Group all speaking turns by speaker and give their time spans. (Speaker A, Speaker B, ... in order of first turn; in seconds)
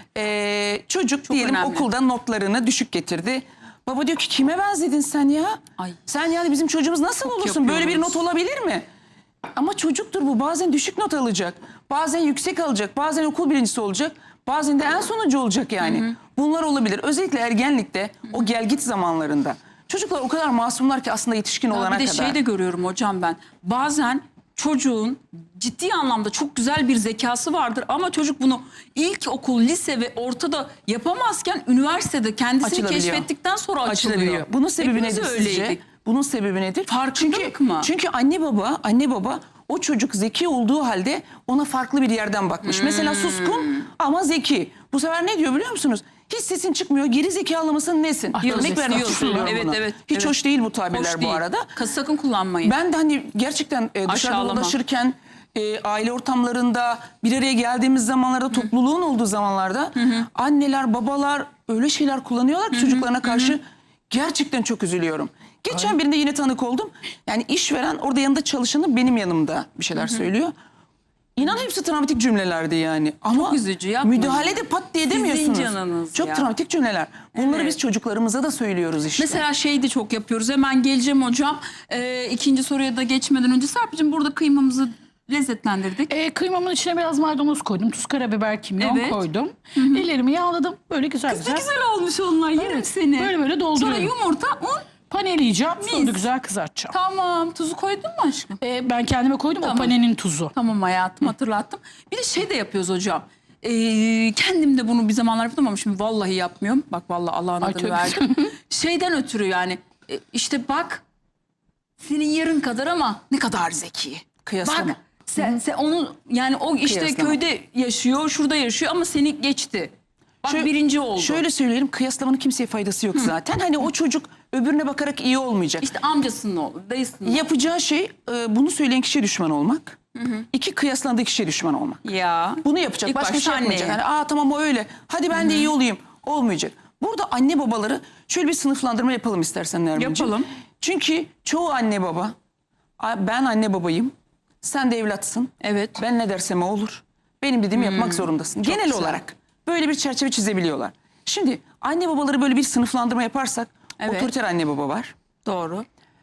Speaker A: 0.1-8.9, 9.6-22.4, 32.6-33.3, 33.9-51.7, 52.6-70.5, 71.4-79.4, 114.5-115.0, 116.8-117.4, 120.4-125.9, 127.2-130.0, 130.5-132.0, 132.6-142.4, 143.0-155.1
Speaker B: 1.3-1.9, 7.2-8.2, 15.8-16.1, 21.7-35.8, 36.9-37.9, 42.6-43.9, 48.4-50.4, 50.9-52.8, 54.1-54.8, 60.0-60.2, 62.7-63.5, 73.3-76.5, 77.3-77.8, 79.2-86.1, 88.8-89.2, 89.8-90.1, 91.3-94.9, 95.8-96.2, 96.9-98.6, 99.6-99.9, 100.5-111.0, 112.0-119.9, 120.4-121.4, 125.8-127.5, 130.2-130.4, 132.0-134.0, 135.3-135.7, 140.0-140.5, 145.6-146.0, 147.7-149.2, 154.0-154.3, 155.4-155.9
Speaker C: 48.3-49.6, 86.1-91.7, 92.6-94.1, 95.1-96.9, 98.6-100.5, 107.6-108.5